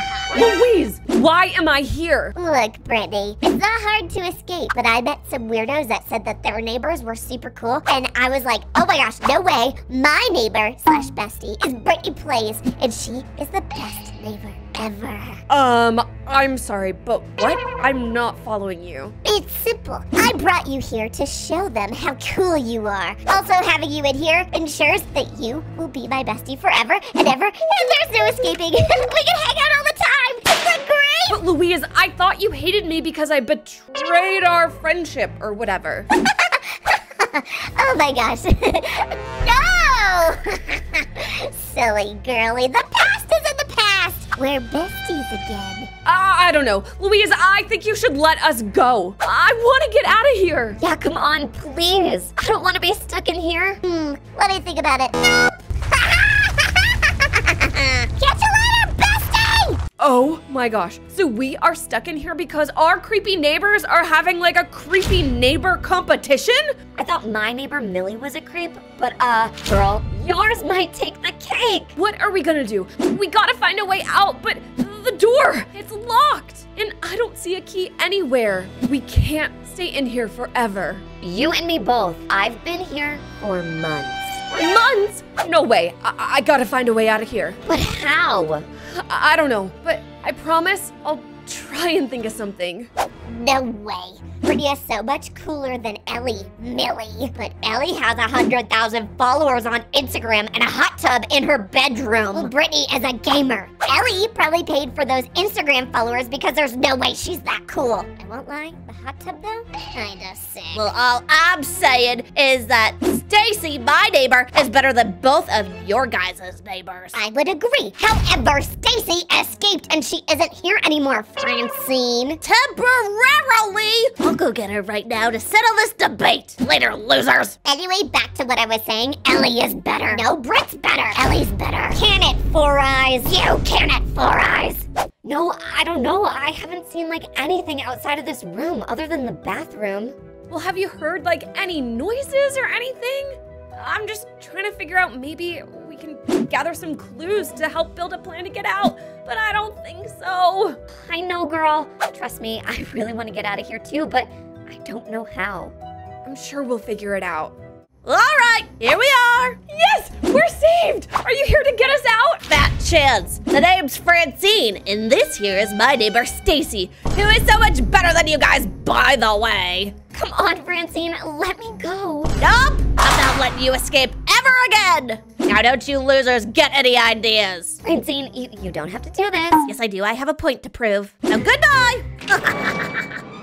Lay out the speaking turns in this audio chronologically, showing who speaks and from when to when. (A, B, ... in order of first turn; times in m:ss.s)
0:00.3-0:02.3 A
0:02.4-0:15.4 B
0:15.5-0:19.1 A
0:19.2-0:31.4 B
0:31.3-0:36.1 A
0:36.2-0:45.9 B
0:46.0-0:50.8 A
0:50.8-0:53.8 C
0:53.8-0:59.8 B
1:00.0-1:06.7 A
1:07.0-1:11.9 C
1:11.9-1:21.0 A
1:21.2-1:24.4 C
1:24.5-1:27.6 A
1:27.6-1:28.7 C
1:28.9-1:32.9 A
1:33.3-1:50.9 B
1:41.0-1:41.4 C
1:50.7-1:57.2 D
1:57.1-2:02.4 B
2:02.4-2:07.6 D
2:07.6-2:13.4 B
2:13.3-2:20.2 C
2:20.5-2:30.8 A
2:30.9-2:35.7 C
2:36.2-2:37.5 A
2:38.0-2:39.6 D
2:39.7-2:42.4 A
2:42.5-2:49.9 D
2:50.1-2:52.3 C
2:52.4-2:57.8 D
2:57.8-2:59.7 C
2:59.7-3:02.9 D